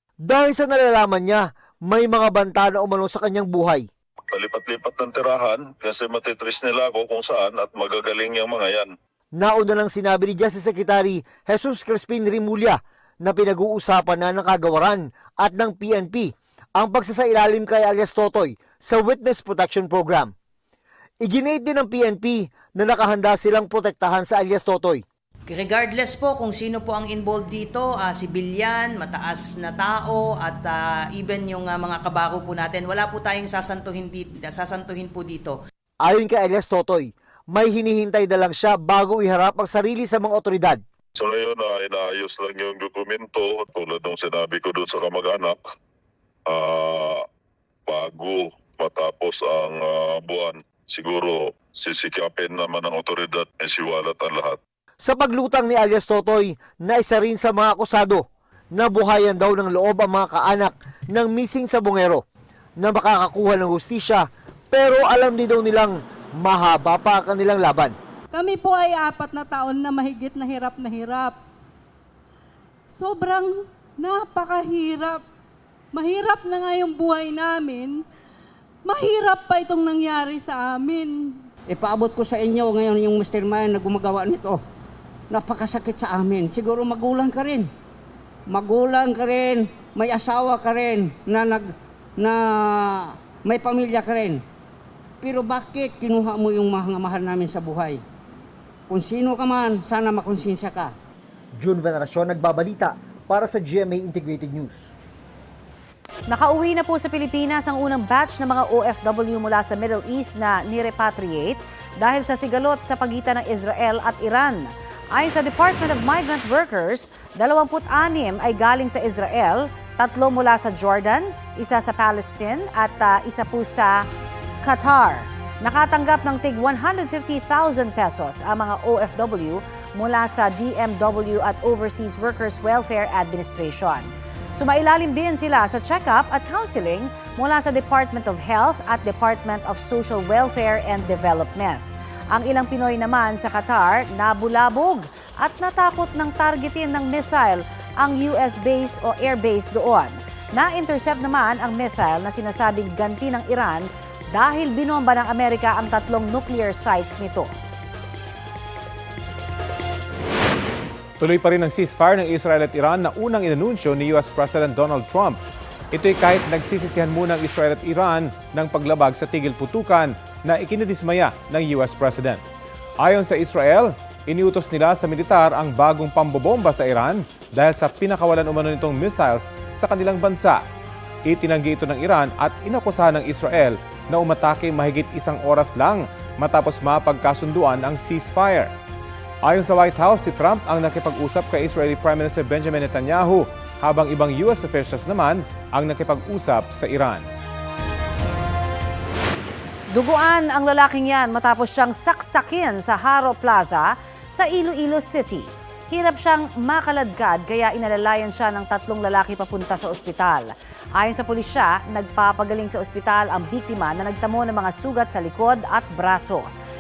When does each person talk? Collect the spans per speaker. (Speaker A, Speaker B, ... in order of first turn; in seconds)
Speaker A: 0.3-3.9, 9.4-20.3, 21.2-25.0, 36.0-40.8, 55.0-58.2, 58.8-62.2, 62.8-67.9, 101.6-104.9
Speaker B: 4.3-8.9, 41.2-45.6, 46.5-47.2, 47.9-54.6
Speaker C: 25.5-35.5
Speaker D: 68.3-71.4, 72.9-75.2, 75.9-78.0, 78.8-81.4
Speaker E: 81.7-84.6, 85.3-87.7, 88.5-94.4, 95.2-98.0, 98.9-100.9
Speaker F: 106.3-124.0, 124.6-157.5, 199.9-216.5
Speaker G: 161.2-165.4, 165.9-172.4, 173.0-180.6, 181.3-188.7, 189.4-197.2